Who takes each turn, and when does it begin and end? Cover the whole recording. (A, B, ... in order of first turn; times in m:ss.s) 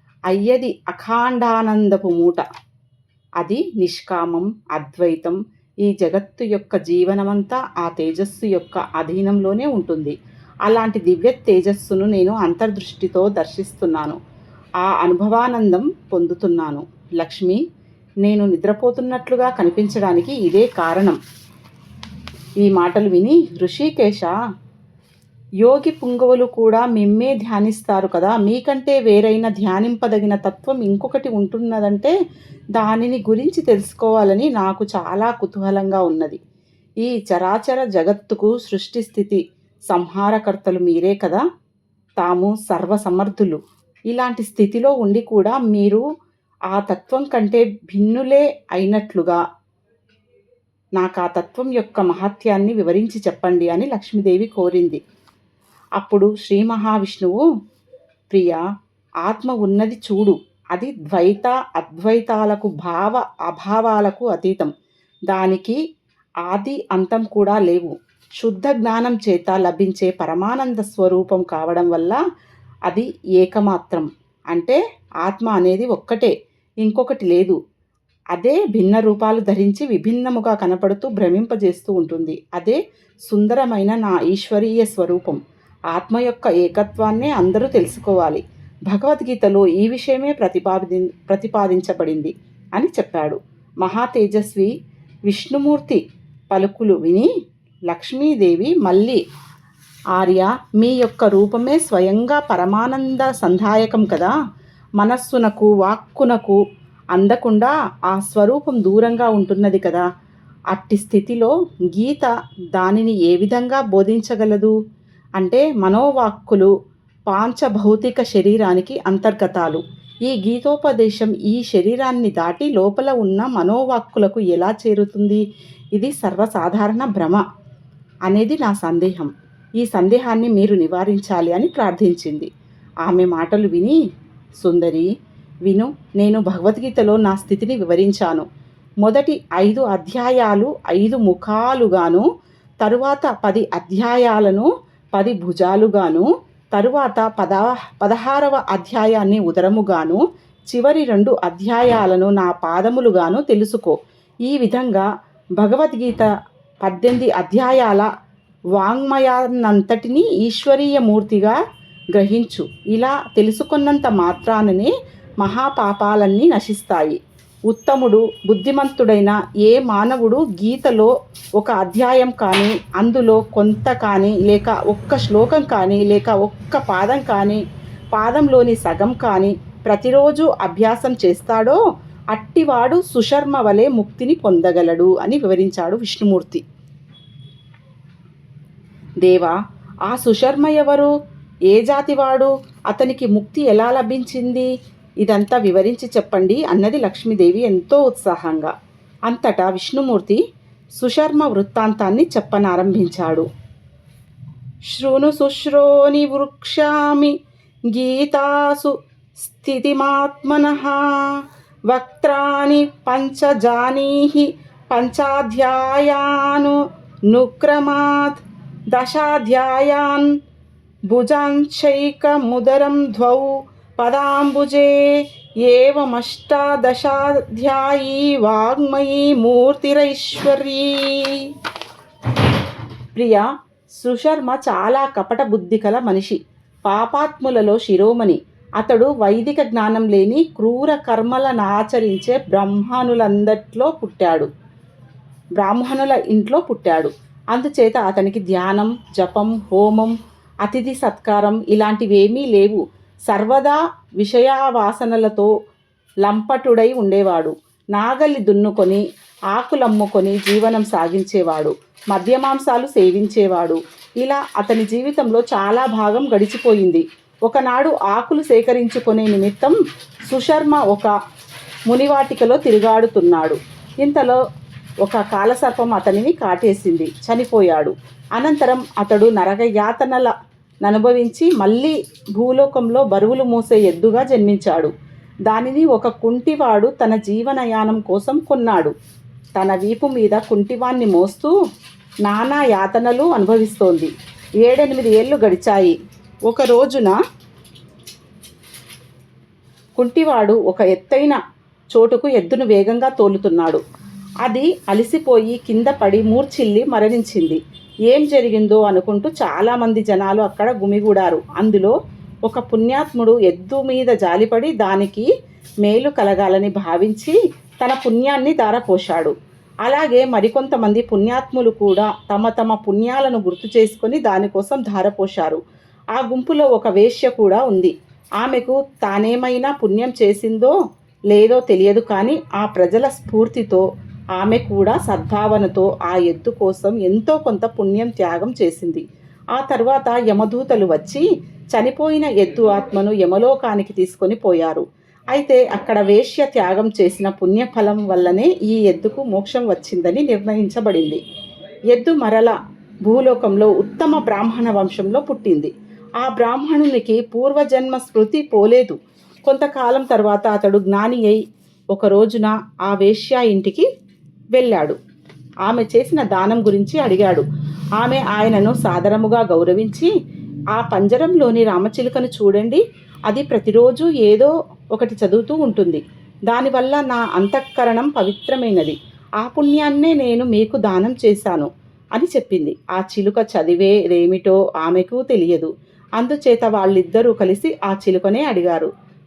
0:00.3-0:02.4 A
0:03.4-0:14.2 A
0:14.8-0:17.6 A
0:18.2-0:21.2 A
0:22.6-0:24.3 A
0:25.6-0:32.1 A
0:32.8-0:36.4 A
0:37.0-0:41.4 A
0:42.2-0:43.6 A
0:44.1-0:46.0 A
0:46.7-0:49.4 A
0:51.0-0:55.0 A
0:56.0-0:57.4 A
0:58.3-0:58.6 A
0:59.2-1:04.7 A
1:05.3-1:05.8 A
1:06.4-1:12.2 A
1:12.9-1:17.6 A
1:18.3-1:25.4 A
1:25.9-1:34.7 A
1:35.3-1:37.3 A
1:37.9-1:39.2 A
1:40.2-1:44.3 A
1:45.0-1:46.6 A
1:47.1-1:50.0 A
1:50.7-1:54.7 A
1:55.4-1:56.7 A
1:57.3-2:05.4 A
2:05.9-2:07.4 A
2:08.3-2:12.5 A
2:13.0-2:14.0 A
2:14.6-2:15.1 A
2:15.6-2:18.4 A
2:19.0-2:22.3 A
2:22.8-2:36.3 A
2:36.8-2:38.1 A
2:38.7-2:41.6 A
2:42.1-2:57.6 A
2:58.1-3:01.8 A
3:02.3-3:06.6 A
3:09.2-3:11.1 A
3:11.7-3:14.7 A
3:15.2-3:18.7 A
3:19.3-3:20.4 A
3:21.0-3:23.5 A
3:24.9-3:27.3 A
3:27.9-3:38.4 A
3:38.9-3:40.3 A
3:41.1-3:45.0 A
3:45.6-3:51.5 A
3:53.1-3:53.4 A
3:54.0-4:04.5 A
4:05.6-4:15.5 A
4:16.2-4:29.8 A
4:30.3-4:31.1 A
4:31.9-4:34.4 A
4:35.0-4:44.9 A
4:45.5-4:48.9 A
4:49.6-4:51.5 A
4:52.2-4:54.1 A
4:54.6-4:56.0 A
4:56.5-4:57.2 A
5:00.0-5:01.4 A
5:01.9-5:03.8 A
5:04.4-5:11.9 A
5:12.4-5:15.3 A
5:15.8-5:19.3 A
5:19.8-5:25.6 A
5:26.1-5:30.7 A
5:31.3-5:33.8 A
5:34.4-5:51.2 A
5:51.9-5:59.0 A
5:59.5-6:01.4 A
6:01.9-6:03.9 A
6:04.5-6:05.0 A
6:05.6-6:07.5 A
6:08.0-6:10.1 A
6:10.7-6:28.9 A